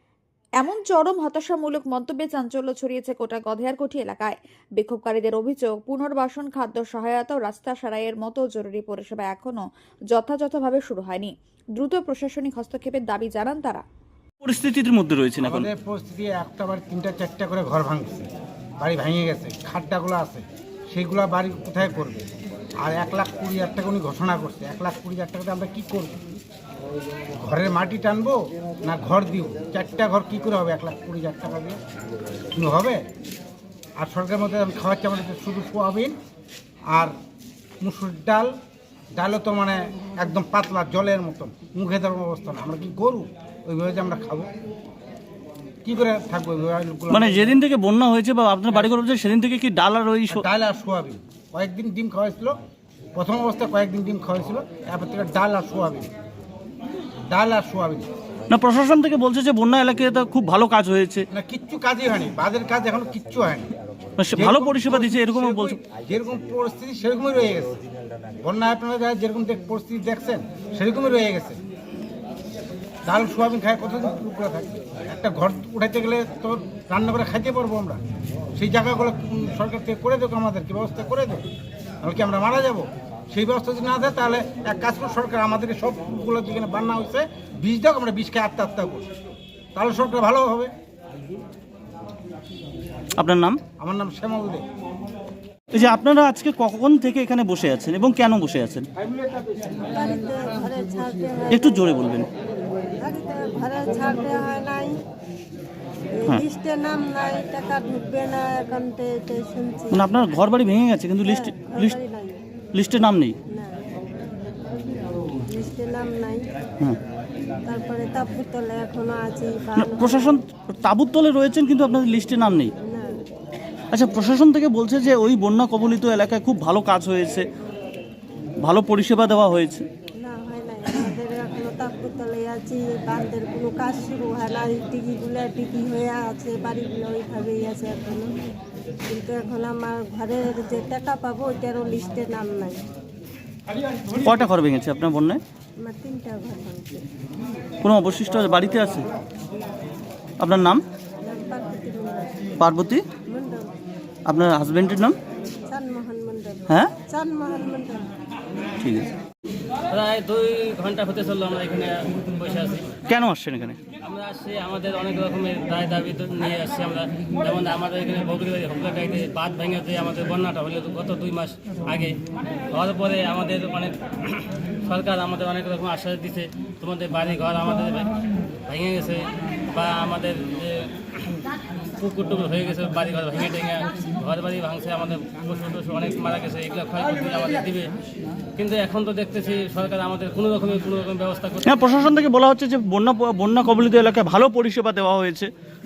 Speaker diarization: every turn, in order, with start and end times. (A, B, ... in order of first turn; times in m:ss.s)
0:00.6-0:13.8 A
0:14.4-0:15.7 B
0:15.4-0:18.3 C
0:18.8-0:22.2 C
0:22.8-0:26.2 C
0:27.4-0:31.8 C
0:32.6-0:33.0 C
0:34.0-0:36.2 C
0:37.8-0:38.5 C
0:39.2-0:44.5 C
0:45.8-0:47.4 C
0:47.1-0:50.4 B
0:50.3-0:52.6 C
0:53.2-0:56.1 C
0:57.3-0:58.1 C
0:58.5-1:01.2 B
1:01.3-1:03.7 C
1:04.2-1:05.8 B
1:04.3-1:07.8 C
1:08.4-1:11.6 C
1:13.0-1:18.0 C
1:18.6-1:21.4 C
1:22.0-1:29.1 C
1:29.7-1:30.7 C
1:33.2-1:33.6 B
1:33.8-1:34.6 C
1:35.7-1:38.9 B
1:39.9-1:41.9 D
1:41.5-1:42.3 B
1:43.0-1:44.9 D
1:46.2-1:50.0 D
1:49.9-1:52.0 B
1:51.2-1:52.4 D
1:52.7-1:53.4 B
1:53.5-1:53.8 D
1:55.5-1:56.4 D
1:57.6-2:00.3 D
1:59.7-2:02.7 B
2:02.8-2:03.1 D
2:03.9-2:07.5 B
2:08.6-2:09.8 B
2:10.2-2:18.3 D
2:19.1-2:22.8 D
2:24.2-2:25.4 B
2:25.8-2:27.0 D
2:27.8-2:29.1 B
2:30.4-2:30.8 B
2:31.2-2:32.5 D
2:32.6-2:33.0 B
2:33.3-2:33.7 D
2:34.2-2:35.2 B
2:35.7-2:38.0 D
2:38.8-2:39.1 B
2:39.9-2:43.0 E
2:43.1-2:43.8 B
2:44.0-2:52.2 E
2:52.7-2:58.1 E
2:58.7-3:01.3 E
3:02.0-3:07.9 E
3:08.6-3:11.7 E
3:11.6-3:15.5 B